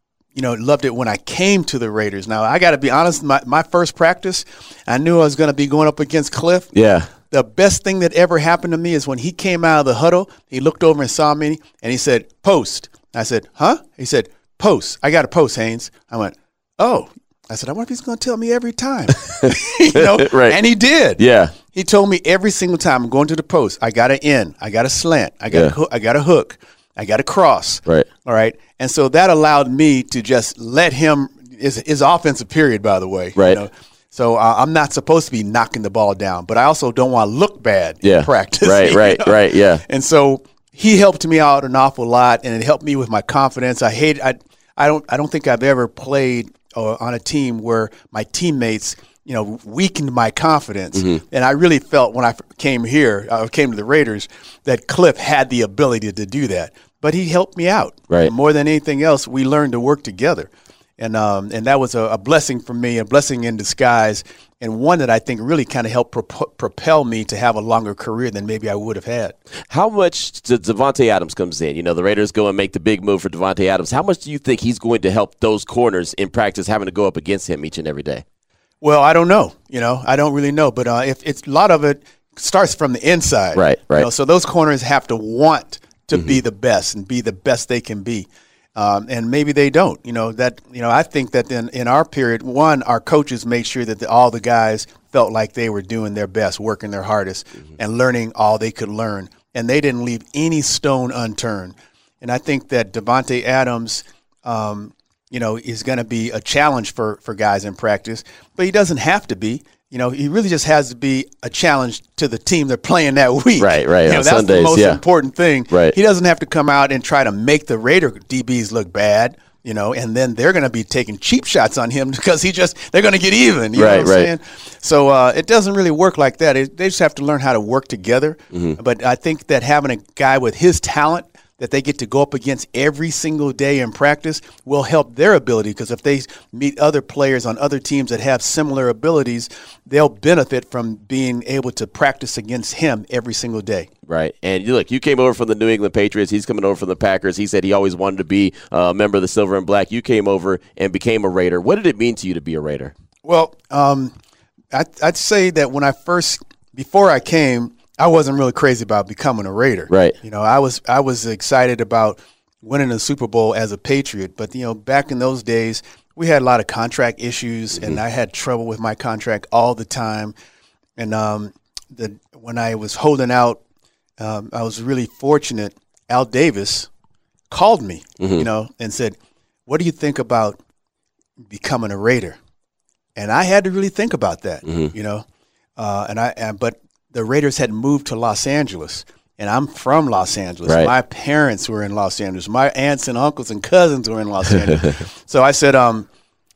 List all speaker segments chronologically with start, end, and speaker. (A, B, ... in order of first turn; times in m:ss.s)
0:00.3-0:06.7 A
0:06.7-0:07.1 B
0:07.3-0:21.2 A
0:19.4-0:20.6 B
0:21.2-0:21.5 B
0:21.7-1:09.3 A
0:25.5-0:25.8 B
0:33.4-0:33.6 B
0:38.0-0:39.8 B
0:50.9-0:51.2 B
1:09.7-1:18.2 B
1:18.8-2:23.9 A
1:23.5-1:24.1 B
1:26.1-1:26.4 B
1:53.6-1:55.0 B
2:03.7-2:04.3 B
2:08.5-2:08.8 B
2:24.1-2:32.9 B
2:33.2-2:34.1 A
2:34.7-2:50.3 A
2:39.9-2:40.1 B
2:51.0-2:53.6 A
2:54.2-2:56.9 A
2:57.5-3:00.6 A
2:58.2-2:58.5 B
3:01.5-3:02.4 A
3:03.2-3:05.2 A
3:04.6-3:04.9 B
3:05.8-3:16.1 A
3:10.6-3:10.9 B
3:14.6-3:15.0 B